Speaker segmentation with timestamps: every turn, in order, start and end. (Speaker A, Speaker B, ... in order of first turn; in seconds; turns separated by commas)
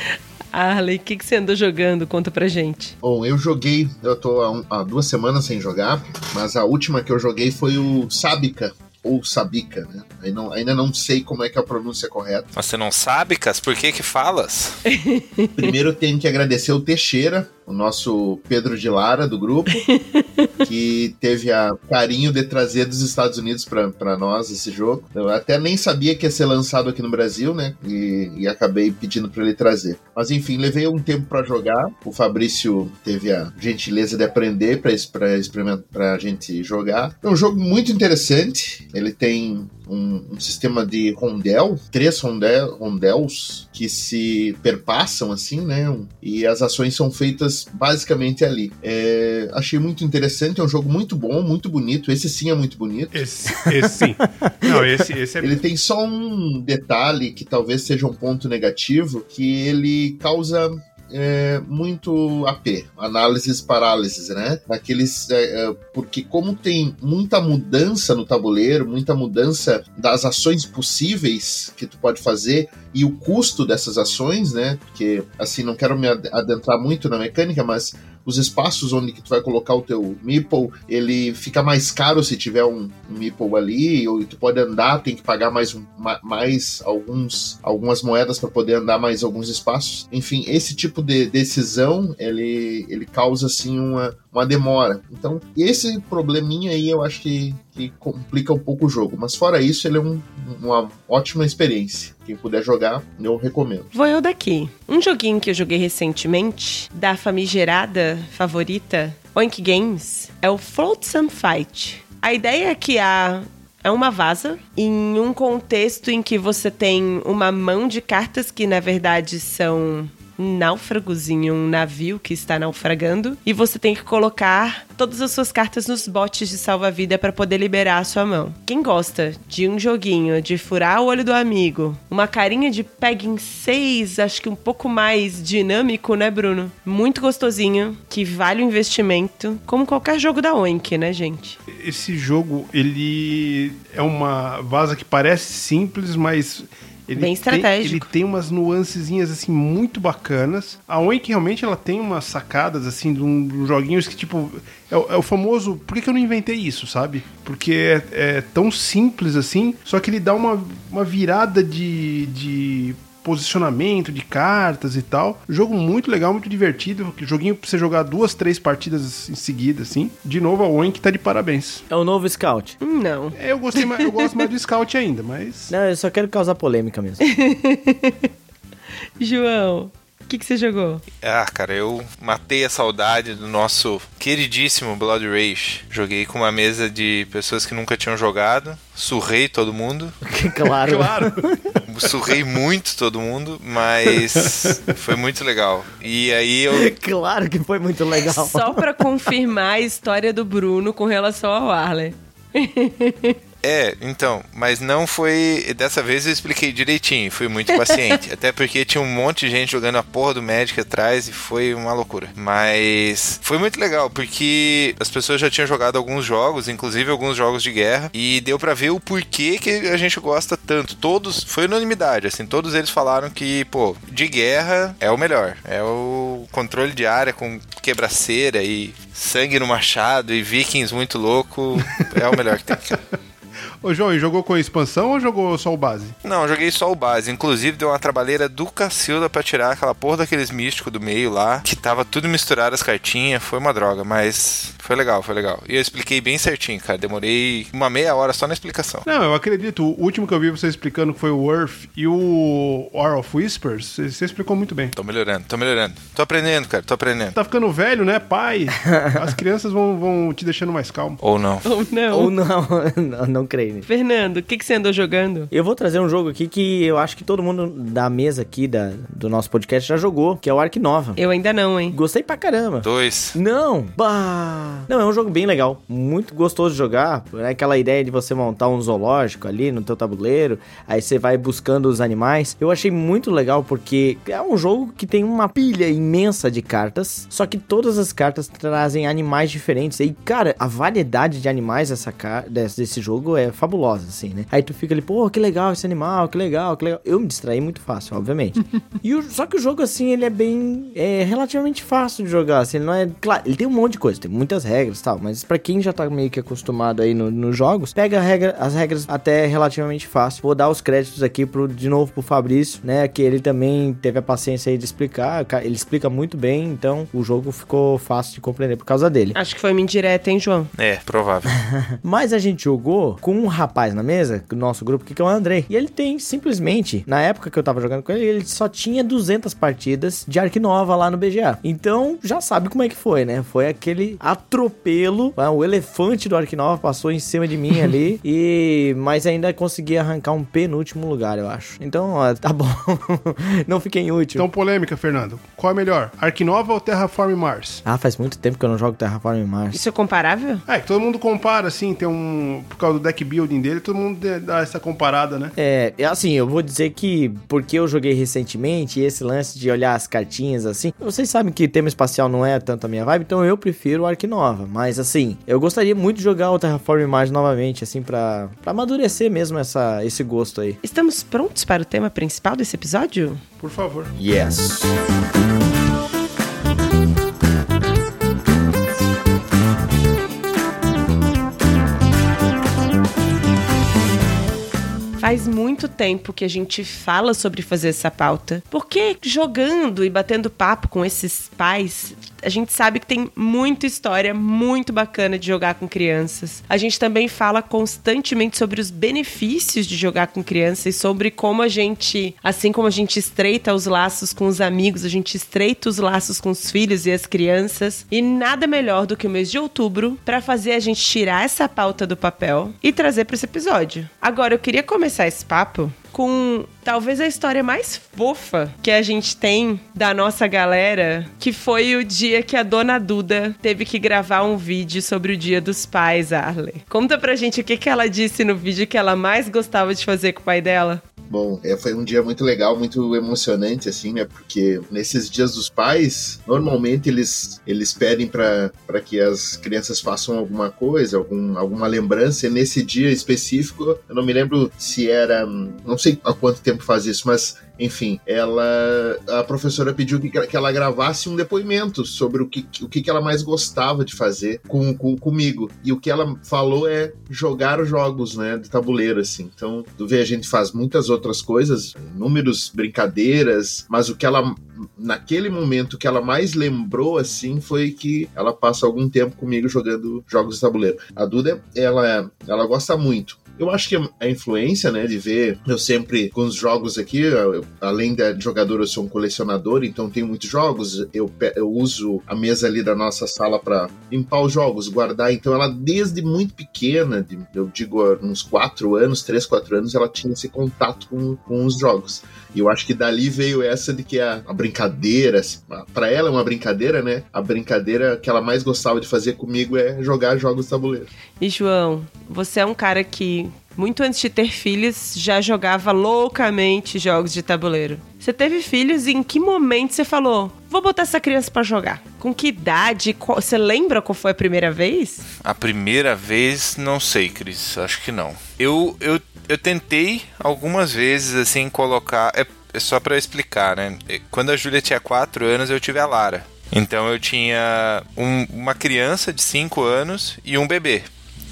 Speaker A: 0.5-3.0, Speaker B: 3.0-12.5, Speaker C: 12.6-14.8, Speaker A: 14.9-15.6, Speaker B: 15.6-19.9, Speaker A: 19.9-20.5, Speaker B: 20.6-53.2, Speaker D: 53.1-55.6, Speaker B: 55.4-103.9, Speaker A: 103.9-141.6, Speaker D: 141.7-171.8, Speaker A: 147.2-148.1, Speaker E: 171.9-172.8, Speaker A: 172.8-174.4, Speaker D: 173.3-175.7, Speaker E: 175.7-177.2, Speaker A: 177.2-178.3, Speaker A: 179.2-181.0, Speaker C: 181.2-190.2, Speaker E: 190.3-191.6, Speaker D: 190.8-191.8, Speaker C: 191.9-196.9, Speaker D: 194.4-194.8, Speaker E: 196.7-198.8, Speaker A: 198.3-203.3, Speaker C: 203.6-233.0, Speaker D: 233.8-236.2, Speaker C: 236.2-249.1, Speaker D: 249.1-254.9, Speaker C: 255.0-257.4, Speaker D: 257.4-261.2, Speaker E: 258.9-259.2, Speaker C: 261.2-261.7, Speaker A: 261.6-262.3, Speaker E: 262.1-263.9, Speaker A: 263.9-265.5, Speaker E: 265.5-271.2, Speaker A: 271.2-272.0, Speaker E: 271.9-319.4, Speaker C: 272.8-273.4, Speaker A: 319.3-320.7, Speaker C: 320.8-321.5, Speaker E: 321.6-344.5, Speaker D: 344.4-347.8, Speaker E: 347.9-349.8, Speaker A: 349.7-350.6, Speaker D: 350.7-355.5, Speaker E: 355.6-370.8, Speaker A: 370.8-373.4, Speaker D: 373.6-374.1, Speaker E: 374.2-374.9, Speaker A: 385.2-431.0, Speaker B: 431.3-501.1, Speaker A: 501.4-515.2, Speaker C: 515.4-531.1